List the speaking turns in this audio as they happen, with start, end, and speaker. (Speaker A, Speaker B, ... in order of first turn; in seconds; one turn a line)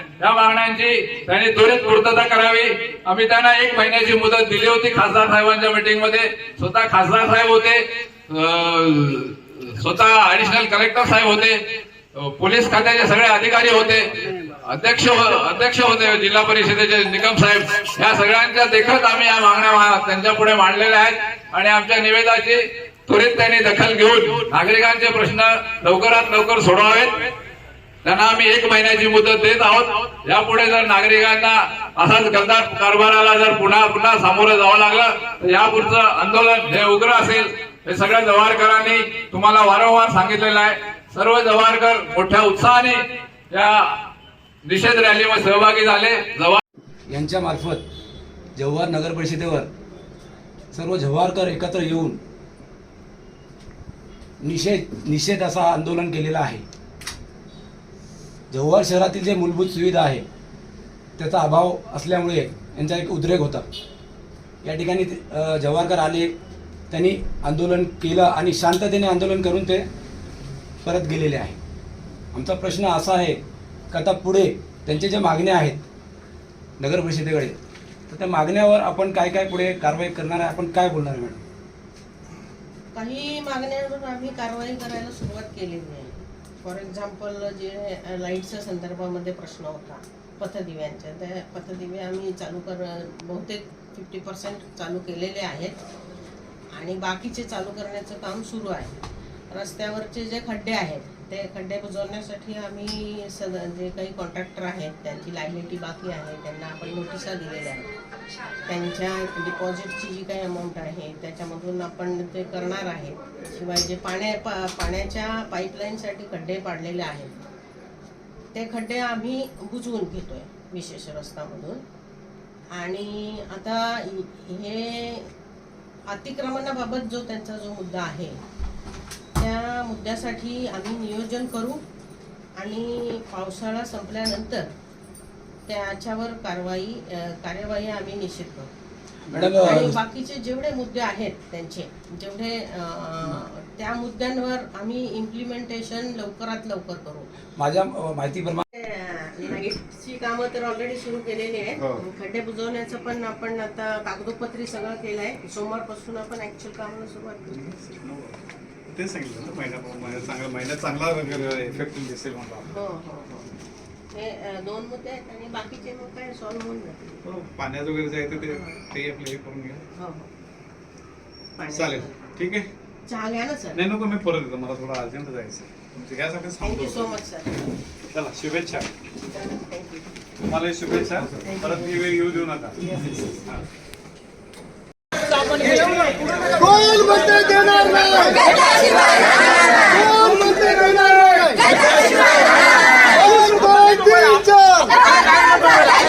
Speaker A: 0.2-11.6
Speaker A: 12.2-27.3
Speaker A: 28.0-43.0
Speaker A: 43.5-43.9
Speaker A: 44.6-46.6
Speaker B: 47.1-47.8
Speaker B: 48.5-49.7
Speaker B: 50.7-52.2
Speaker B: 54.4-56.6
Speaker B: 58.5-60.2
Speaker B: 61.2-63.6
Speaker B: 64.6-66.3
Speaker B: 66.9-69.8
Speaker B: 70.8-71.6
Speaker B: 72.3-73.4
Speaker B: 73.9-75.8
Speaker B: 76.8-77.5
Speaker B: 78.1-81.4
Speaker C: 82.9-95.8
Speaker C: 96.7-98.9
Speaker C: 99.5-107.9
Speaker C: 108.7-117.4
Speaker C: 118.5-121.8
Speaker C: 122.7-125.3
Speaker C: 126.1-128.4
Speaker C: 129.3-131.8
Speaker C: 132.5-134.7
Speaker C: 135.7-138.7
Speaker B: 139.3-140.0
Speaker C: 139.3-147.3
Speaker B: 147.6-148.6
Speaker C: 148.7-157.6
Speaker D: 157.5-158.4
Speaker D: 158.9-162.7
Speaker C: 162.7-163.5
Speaker C: 164.1-167.2
Speaker D: 167.2-169.8
Speaker C: 168.4-168.8
Speaker C: 169.9-170.3
Speaker C: 171.6-172.3
Speaker D: 171.7-172.7
Speaker C: 173.1-173.8
Speaker D: 173.7-177.2
Speaker C: 176.6-177.6
Speaker D: 178.1-178.9
Speaker D: 180.5-183.4
Speaker E: 186.8-188.2
Speaker E: 190.0-191.6
Speaker E: 193.2-194.8